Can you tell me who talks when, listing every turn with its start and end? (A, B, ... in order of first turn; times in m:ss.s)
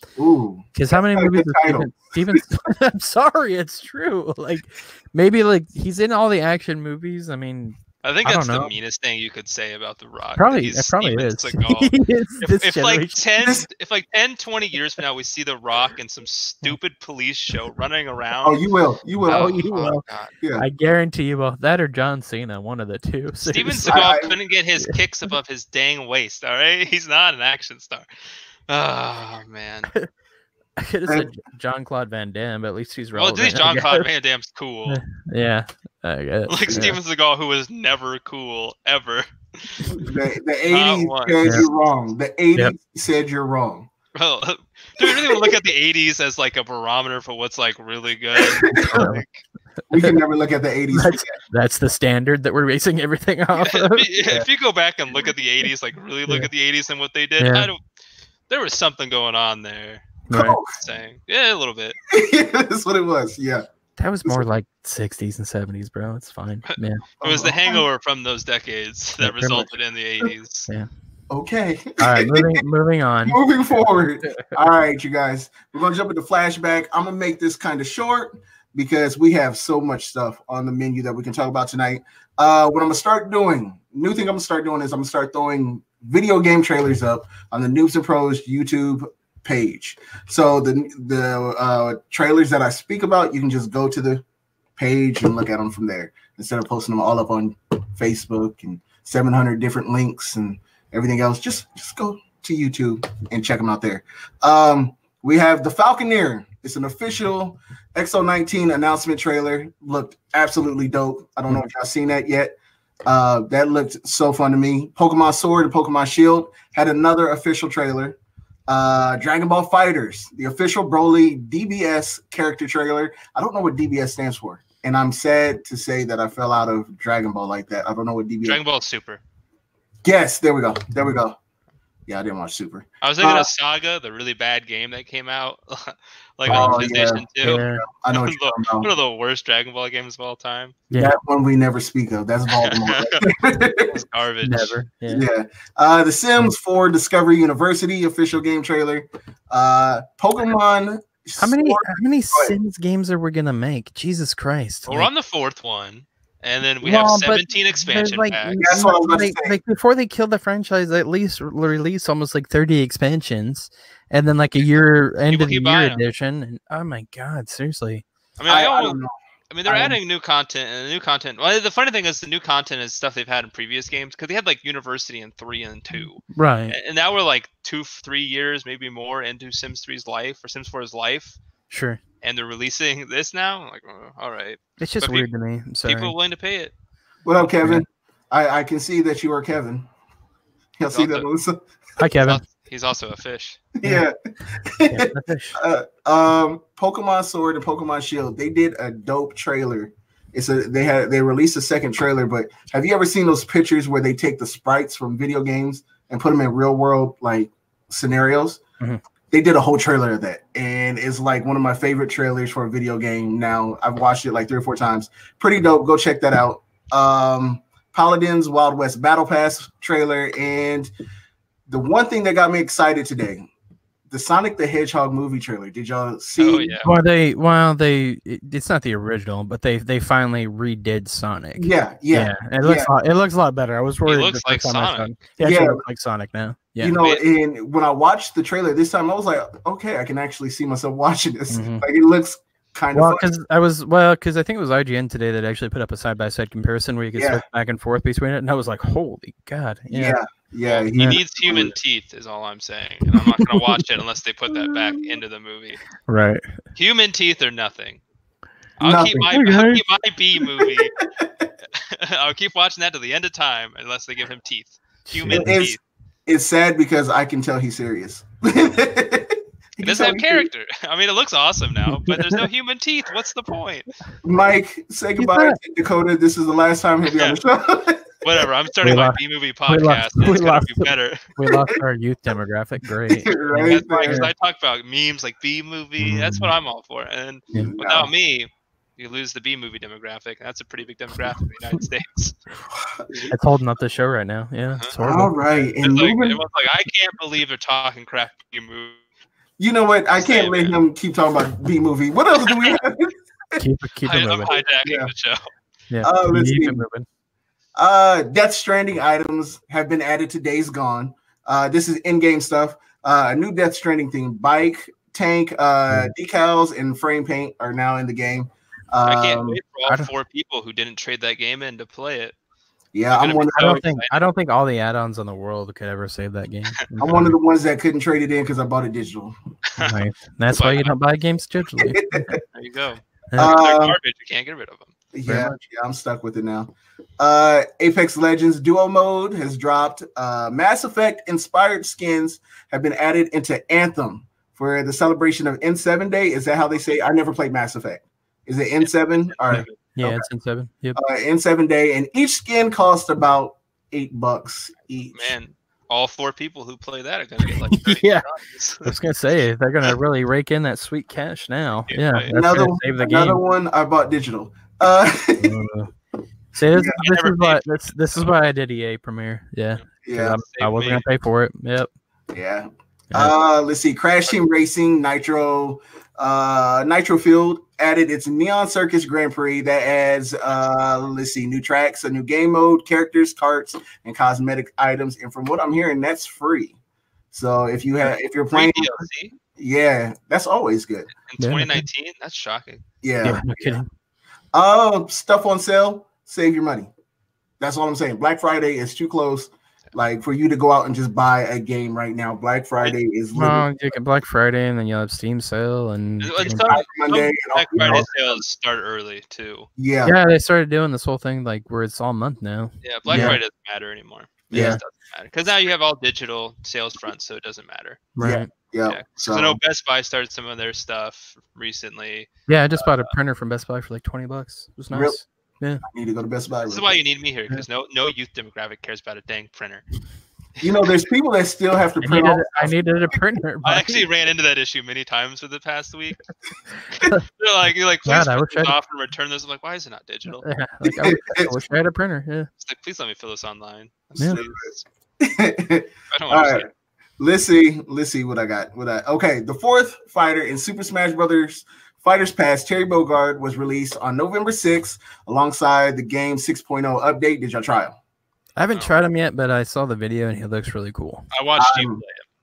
0:00.2-0:02.4 A
0:00.7-0:08.7 B
0:08.0-0:18.6 C
0:10.4-0:13.2 B
0:13.4-0:13.7 A
0:18.4-0:19.6 A
0:19.3-0:20.0 B
0:19.3-0:20.3 C
0:20.6-0:24.1 B
0:23.5-0:28.1 C
0:23.9-0:24.4 A
0:28.7-0:29.9 C
0:30.8-0:34.0 B
0:33.2-0:35.0 C
0:34.9-0:37.0 B
0:36.5-0:40.0 C
0:39.9-0:43.9 A
0:40.7-0:41.6 C
0:44.2-0:49.4 C
0:45.0-0:45.6 A
0:48.4-0:49.0 A
0:48.7-0:49.2 B
0:49.9-0:51.4 A
0:50.9-0:54.1 B
0:53.6-0:57.8 C
0:57.4-0:57.7 B
0:58.5-1:02.0 C
1:00.3-1:00.6 B
1:00.3-1:00.8 A
1:02.1-1:03.6 A
1:04.0-1:07.0 B
1:06.7-1:10.7 C
1:07.2-1:07.8 A
1:09.2-1:09.7 B
1:11.3-1:12.6 A
1:12.0-1:13.4 B
1:13.3-1:34.2 A
1:34.8-1:58.2 A
1:58.7-2:08.6 A
2:08.4-2:09.2 C
2:10.0-2:11.4 A
2:12.1-2:13.5 A
2:13.0-2:20.8 C
2:16.5-2:16.8 B
2:16.5-2:17.3 A
2:17.4-2:17.8 B
2:17.8-2:18.9 A
2:20.9-2:21.2 B
2:21.0-2:24.0 A
2:22.5-2:23.3 C
2:23.9-2:24.7 C
2:24.4-2:25.3 B
2:25.1-2:32.6 A
2:31.4-2:35.1 B
2:34.9-2:38.6 C
2:36.8-2:48.0 B
2:38.6-2:39.6 A
2:45.3-2:46.0 C
2:48.4-2:49.0 C
2:48.5-2:49.1 A
2:49.5-3:01.4 C
2:49.7-2:50.0 A
2:56.3-2:56.8 B
3:01.7-3:02.0 B
3:02.2-3:05.3 C
3:04.8-3:06.1 B
3:05.8-3:06.7 C
3:07.2-3:09.9 A
3:10.8-3:11.6 A
3:10.9-3:11.3 C
3:12.0-3:12.4 B
3:12.2-3:13.6 C
3:13.8-3:28.6 A
3:14.9-3:15.6 B
3:29.3-3:40.9 A
3:41.7-3:43.5 A
3:44.1-3:46.8 A
3:46.4-3:46.9 C
3:46.8-3:57.0 B
3:51.6-3:52.9 A
3:54.1-3:55.2 C
3:55.4-3:55.8 A
3:56.8-4:03.3 A
4:01.5-4:01.9 B
4:02.9-4:10.2 B
4:07.2-4:07.4 A
4:09.9-4:11.7 A
4:10.6-4:15.8 C
4:13.1-4:13.8 B
4:16.1-4:16.5 B
4:16.8-4:18.0 C
4:18.8-4:21.0 C
4:18.8-4:19.3 A
4:19.3-4:19.8 B
4:20.4-4:21.5 A
4:21.8-4:25.8 C
4:25.1-4:25.5 B
4:25.3-4:30.5 A
4:29.8-4:33.9 C
4:31.9-4:32.4 B
4:34.2-4:38.5 A
4:35.2-4:35.6 B
4:37.1-4:37.4 C
4:38.2-4:41.3 C
4:38.8-4:44.3 B
4:43.1-4:44.2 A
4:43.6-4:52.4 C
4:46.0-4:46.5 B
4:47.7-4:48.1 A
4:52.8-4:53.3 A
4:53.3-4:55.3 B
4:55.0-4:56.4 A
4:55.8-4:59.0 C
4:59.6-5:03.6 A
5:00.2-5:00.8 C
5:02.4-5:02.8 C
5:03.6-5:04.6 B
5:04.0-5:05.4 C
5:04.8-5:05.1 A
5:05.9-5:07.1 B
5:06.0-5:06.8 A
5:07.8-5:19.6 A
5:19.0-5:22.4 C
5:22.9-5:23.8 A
5:23.1-5:24.2 C
5:23.6-5:27.4 B
5:27.0-5:29.4 A
5:29.7-5:30.0 C
5:29.8-5:32.4 B
5:30.5-5:30.9 C
5:31.8-5:32.4 A
5:32.5-5:34.9 C
5:33.4-5:34.0 A
5:35.1-5:50.2 A
5:35.3-5:35.6 B
5:48.8-5:49.8 C
5:49.5-5:51.0 B
5:51.0-5:55.4 A
5:55.1-5:58.9 C
5:57.7-5:58.3 B
5:58.8-6:03.4 B
6:01.9-6:02.3 C
6:02.3-6:05.6 A
6:05.4-6:05.9 B
6:06.5-6:11.9 B
6:06.7-6:07.0 A
6:07.0-6:08.3 C
6:10.0-6:10.4 A
6:10.4-6:11.0 C
6:12.3-6:26.8 A
6:27.3-6:29.0 A
6:28.5-6:29.4 C
6:29.6-6:31.1 A
6:31.3-6:32.8 C
6:31.4-6:31.8 B
6:33.0-6:33.8 A
6:33.2-6:33.9 B
6:34.5-6:36.9 A
6:37.6-6:43.7 A
6:43.4-6:46.7 B
6:46.2-6:49.7 C
6:46.5-6:48.4 A
6:47.8-6:48.1 B
6:49.8-6:50.2 A
6:50.0-6:53.4 B
6:52.8-6:58.1 C
6:53.1-6:53.4 A
6:54.5-6:54.8 A
6:54.5-6:54.8 B
6:58.2-6:58.5 B
6:58.2-6:59.6 A
6:58.9-7:03.1 C
7:02.5-7:05.8 B
7:04.9-7:05.2 A
7:05.8-7:07.0 A
7:06.7-7:09.8 C
7:10.6-7:10.9 C
7:10.6-7:12.8 A
7:12.0-7:14.0 B
7:13.6-7:16.2 C
7:17.0-7:20.4 C
7:17.0-7:17.2 B
7:18.1-7:18.8 B
7:20.4-7:22.5 B
7:20.8-7:21.6 A
7:22.6-7:24.8 C
7:24.2-7:24.5 A
7:25.2-7:26.7 A
7:26.1-7:26.7 C
7:27.2-7:38.0 A
7:38.6-7:41.3 B
7:41.3-7:42.2 C
7:41.6-7:42.0 A